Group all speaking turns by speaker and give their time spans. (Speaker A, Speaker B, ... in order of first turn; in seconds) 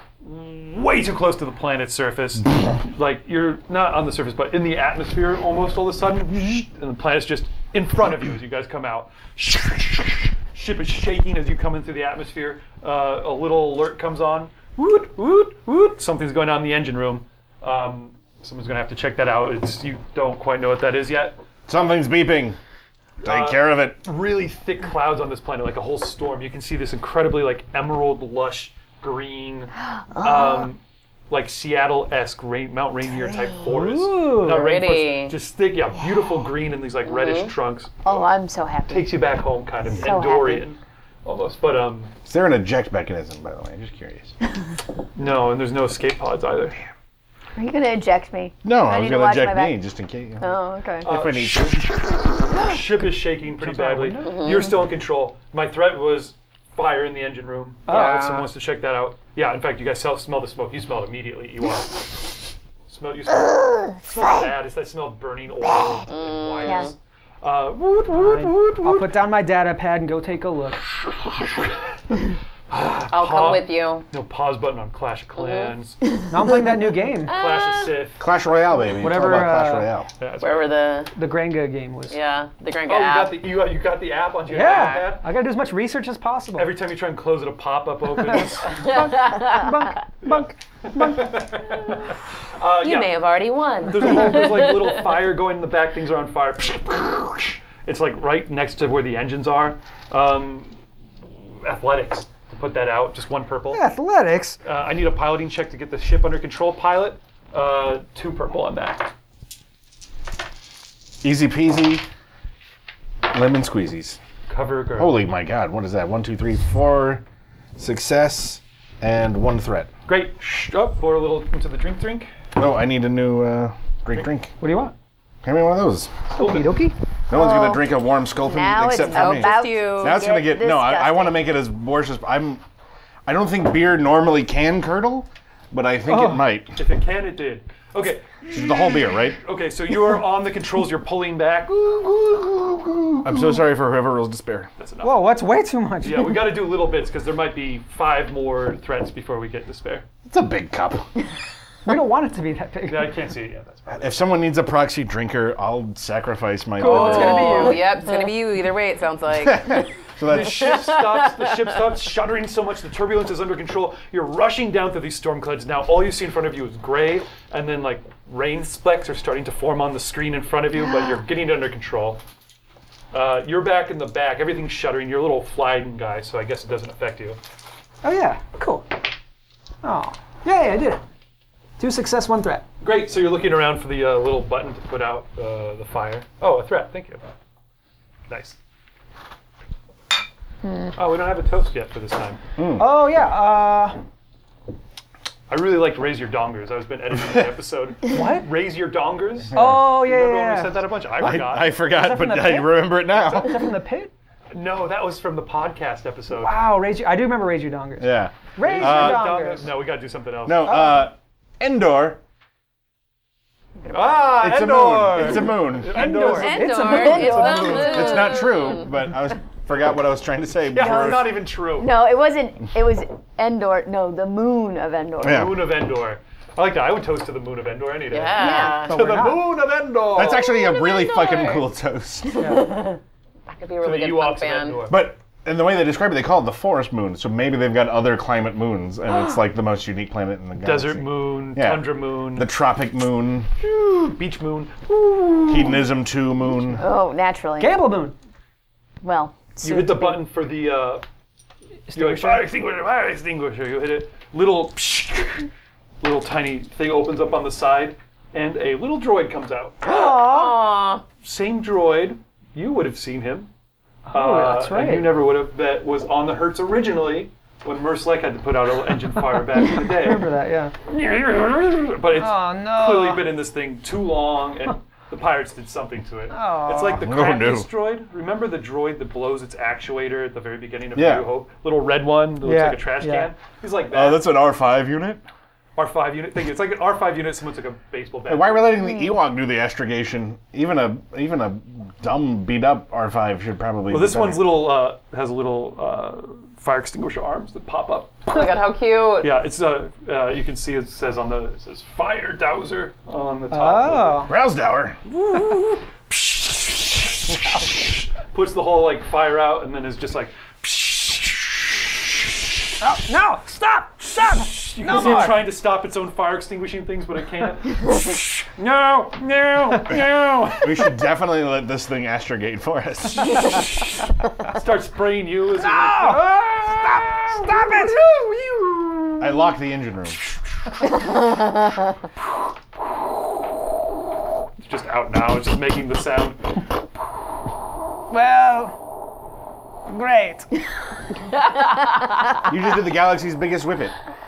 Speaker A: 0.2-21.4, 23.2-38.0, 38.9-42.1, 45.1-46.8, 51.0-69.2, 71.0-72.2, 72.7-76.0, 77.3-78.2, 80.2-80.7, 82.8-85.3, 86.5-89.0, 90.2-93.2, 93.8-100.8, 101.5-103.9, 104.6-109.1, 114.5-115.3, 120.0-122.3, 126.3-126.8, 136.7-143.4, 144.8-145.4, 146.0-150.1, 152.8-154.2, 160.2-172.2, 173.1-177.4, 182.8-187.2, 188.3-188.6, 190.9-192.4, 195.5-201.7, 204.5-206.7, 208.6-211.0, 213.9-218.4, 220.7-221.9, 225.2-230.4, 233.8-235.1, 240.6-242.5, 243.6-245.8, 249.6-251.0, 251.9-255.5, 256.0-260.4, 261.2-263.5, 264.1-270.3, 270.9-284.3, 285.8-288.8, 293.9-298.5, 299.2-304.3, 306.1-306.8, 307.7-312.1, 314.1-320.9, 323.3-327.5, 334.6-336.6
Speaker B: 21.7-22.6, 23.2-24.0, 42.2-44.3, 48.6-52.2, 78.2-80.1, 111.2-112.0, 113.3-114.2, 115.0-117.2, 117.8-119.9, 122.5-124.5, 125.4-126.1, 127.3-132.6, 133.2-136.7, 138.5-139.4, 143.2-144.7, 150.2-151.1, 153.9-157.8, 159.4-160.9, 192.6-192.9, 199.5-200.0, 201.2-203.7, 208.0-209.4, 210.4-212.2, 214.3-216.0, 217.6-221.4, 225.2-225.6, 230.1-232.5, 234.9-243.5, 245.5-246.8, 276.8-277.7, 280.9-281.2, 283.9-285.2, 288.2-294.5, 304.3-305.0, 320.6-323.5, 329.2-330.2, 342.5-343.9
Speaker C: 30.1-30.7, 38.0-39.1, 39.9-40.6, 47.5-49.8, 50.4-51.1, 66.6-66.9, 127.3-127.8, 128.4-131.4, 190.6-190.9, 216.9-218.0, 220.7-225.5, 228.4-228.8, 246.8-247.9, 249.0-250.2, 288.8-289.1, 331.0-331.8
Speaker D: 33.6-34.9, 53.5-54.5, 57.9-58.2, 68.1-70.8, 76.3-77.3, 79.0-79.9, 81.1-82.2, 84.5-86.8, 88.3-91.3, 103.7-104.6, 124.6-124.9, 126.3-126.9, 136.1-136.5, 145.0-146.7, 151.8-153.2, 156.8-157.8, 178.0-179.0, 179.8-181.0, 181.8-182.6, 192.8-194.0, 198.1-198.5, 199.5-204.1, 206.4-209.8, 215.8-217.5, 228.4-229.5, 232.3-232.7, 247.6-248.1, 251.9-252.5, 264.1-265.1, 269.7-270.7, 272.1-273.3, 276.3-277.0, 282.4-283.3, 303.5-304.3, 305.3-305.7, 312.8-315.5, 325.6-329.5, 338.1-338.7, 339.9-340.5
Speaker E: 34.5-35.3, 37.0-37.5, 54.2-54.7, 57.9-58.5, 66.1-66.9, 73.1-74.0, 75.3-75.7, 77.3-78.0, 80.4-81.1, 82.1-83.4, 88.9-89.4, 92.8-95.1, 129.0-130.2, 156.8-159.9, 216.1-218.8, 228.1-229.0, 230.3-231.7, 233.5-234.8, 259.8-261.0, 298.3-299.4